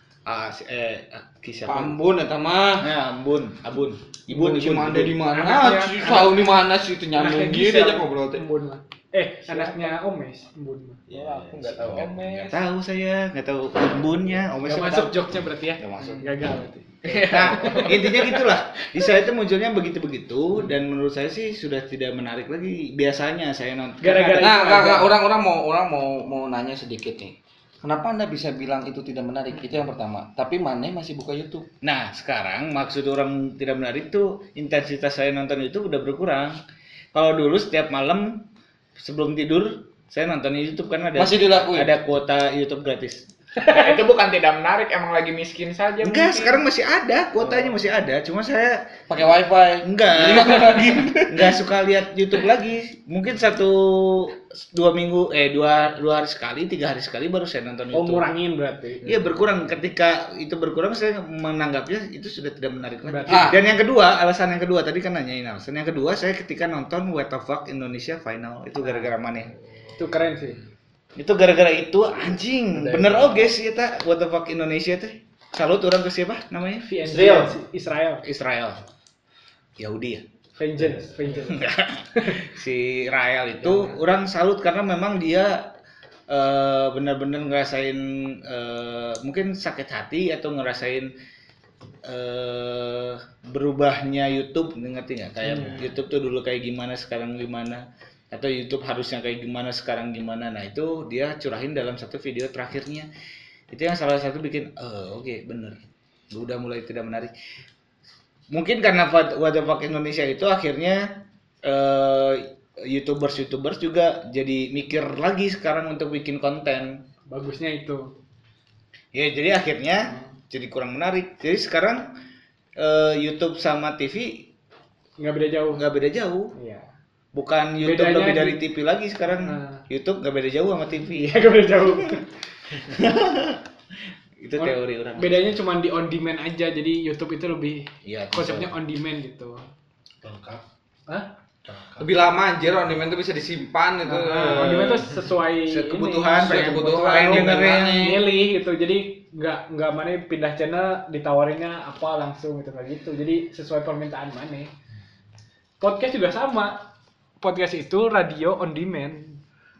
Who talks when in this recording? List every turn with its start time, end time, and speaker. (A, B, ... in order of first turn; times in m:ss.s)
0:00.2-0:02.0 A
0:01.7-0:02.9 B
0:02.8-0:05.2 A
0:04.3-0:08.4 B
0:05.2-0:06.4 C
0:07.1-0:11.1 C
0:11.1-0:12.2 D
0:11.1-0:15.2 A
0:11.7-0:12.3 E
0:11.9-0:12.6 C
0:14.6-0:18.2 C
0:15.8-0:16.3 A
0:17.0-0:18.4 E
0:17.2-0:24.7 A
0:24.0-0:25.1 C
0:24.4-0:31.7 B
0:31.8-0:36.6 A
0:37.1-0:38.4 A
0:39.0-0:43.2 A
0:41.2-0:42.0 B
0:43.6-0:43.9 C
0:43.6-0:46.6 E
0:46.0-0:49.0 A
0:49.1-0:51.5 B
0:49.8-0:58.3 A
0:57.9-0:59.4 C
0:59.0-1:09.5 A
1:03.0-1:03.5 C
1:03.3-1:03.6 B
1:10.0-1:10.6 C
1:11.2-1:16.8 A
1:12.7-1:13.5 E
1:16.8-1:18.2 C
1:17.0-1:17.6 D
1:18.2-1:18.8 A
1:19.8-1:20.2 A
1:20.6-1:22.4 C
1:20.8-1:21.1 D
1:21.3-1:25.7 A
1:23.6-1:23.9 C
1:26.3-1:31.1 A
1:32.0-1:43.1 A
1:35.5-1:35.8 D
1:35.5-1:35.8 C
1:43.7-1:45.8 A
1:46.3-1:47.3 A
1:48.5-1:57.0 A
1:57.3-1:58.1 C
1:59.1-2:02.1 A
2:02.8-2:04.5 A
2:05.2-2:05.8 C
2:05.8-2:06.5 A
2:06.5-2:06.9 C
2:07.3-2:12.2 A
2:07.8-2:08.6 C
2:09.3-2:09.8 C
2:11.0-2:12.2 C
2:12.8-2:13.6 A
2:14.4-2:15.5 A
2:14.6-2:19.6 C
2:18.0-2:18.7 A
2:20.2-2:20.6 D
2:21.6-2:22.1 D
2:22.0-2:25.1 B
2:24.0-2:34.7 C
2:25.6-2:28.3 A
2:26.3-2:28.2 B
2:35.8-2:36.9 C
2:37.4-2:39.4 C